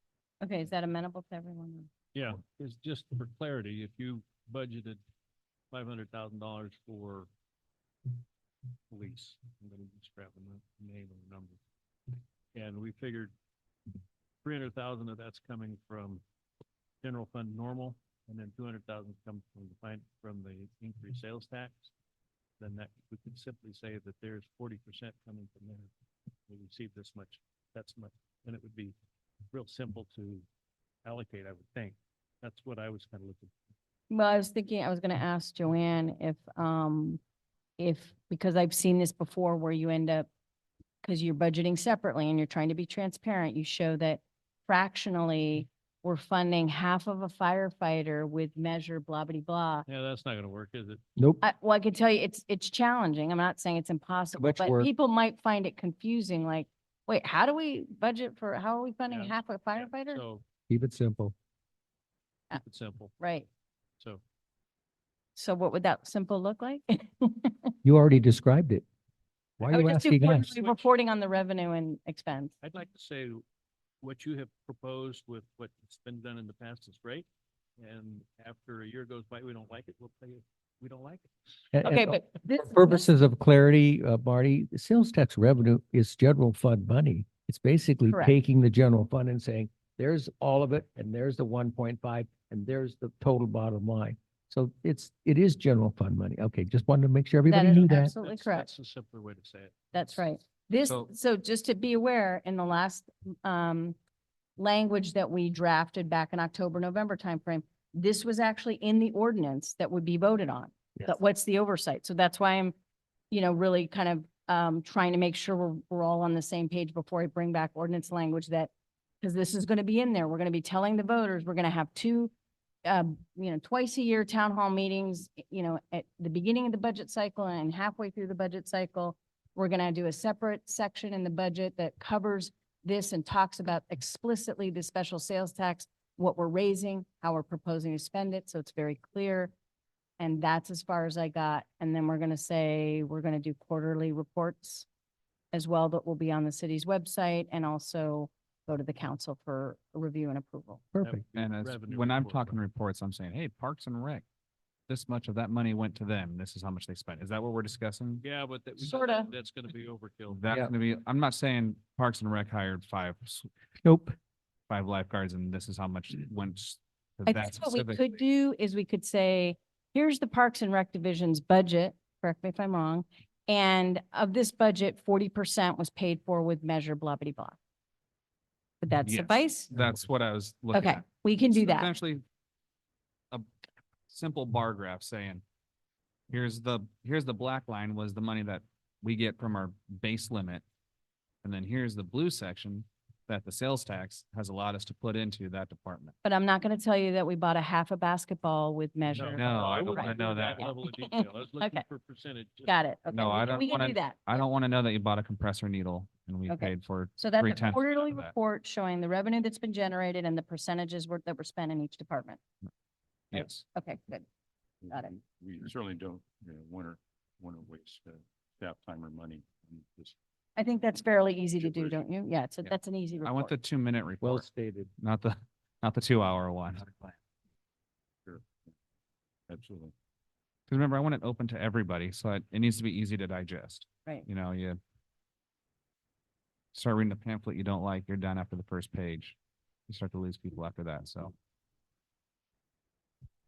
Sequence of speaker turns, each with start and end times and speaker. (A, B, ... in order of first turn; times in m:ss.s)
0:00.4-0:01.9 A
0:02.2-0:05.0 B
0:05.7-0:07.3 B
0:08.9-0:11.6 B
0:12.6-0:13.3 B
0:14.4-0:16.2 B
0:17.0-0:21.9 B
0:22.6-0:25.9 B
0:26.5-0:29.0 B
0:29.5-0:30.4 B
0:31.0-0:33.5 B
0:34.1-0:37.2 A
0:37.8-0:40.3 A
0:41.0-0:49.9 A
0:49.9-0:51.0 B
0:51.4-1:00.2 A
0:54.4-0:54.9 C
0:59.1-1:00.4 B
1:00.7-1:01.4 C
1:02.5-1:03.2 B
1:03.2-1:03.5 A
1:05.4-1:07.7 A
1:07.8-1:08.8 C
1:09.6-1:10.6 C
1:09.6-1:12.5 A
1:12.6-1:13.4 B
1:14.0-1:17.3 B
1:17.8-1:21.3 B
1:21.7-1:38.1 C
1:21.8-1:23.0 A
1:28.1-1:28.4 A
1:37.5-1:38.7 A
1:37.7-1:40.3 B
1:39.9-1:44.0 A
1:40.8-1:41.1 D
1:44.6-1:52.7 A
1:53.3-1:58.7 A
1:59.2-2:02.3 A
2:02.9-2:19.5 A
2:20.2-2:24.9 A
2:25.5-2:30.9 A
2:30.9-2:31.2 C
2:31.0-2:32.6 B
2:31.4-2:34.2 D
2:34.9-2:38.2 D
2:38.2-2:40.5 B
2:38.8-2:39.3 A
2:40.3-2:43.5 D
2:43.8-2:44.2 C
2:44.7-2:48.2 D
2:47.3-2:57.6 A
2:58.8-2:59.7 A
2:59.1-3:02.2 D
3:00.7-3:01.9 A
3:04.1-3:05.4 D
3:06.3-3:10.6 D
3:11.4-3:16.2 D
3:16.2-3:21.8 A
3:19.1-3:22.7 B
3:19.3-3:20.7 D
3:22.7-3:24.4 A
3:23.1-3:28.3 D
3:23.3-3:23.8 B
3:26.5-3:32.4 A
3:33.3-3:33.6 D
3:33.3-3:34.3 A
3:34.8-3:40.2 E
3:34.9-3:35.2 A
3:40.6-3:43.5 A
3:41.6-3:42.0 E
3:42.7-3:47.0 D
3:44.2-3:44.9 C
3:48.2-3:48.7 E
3:49.5-3:49.9 E
3:50.7-3:54.8 D
3:56.7-3:59.4 D
3:59.9-4:01.3 D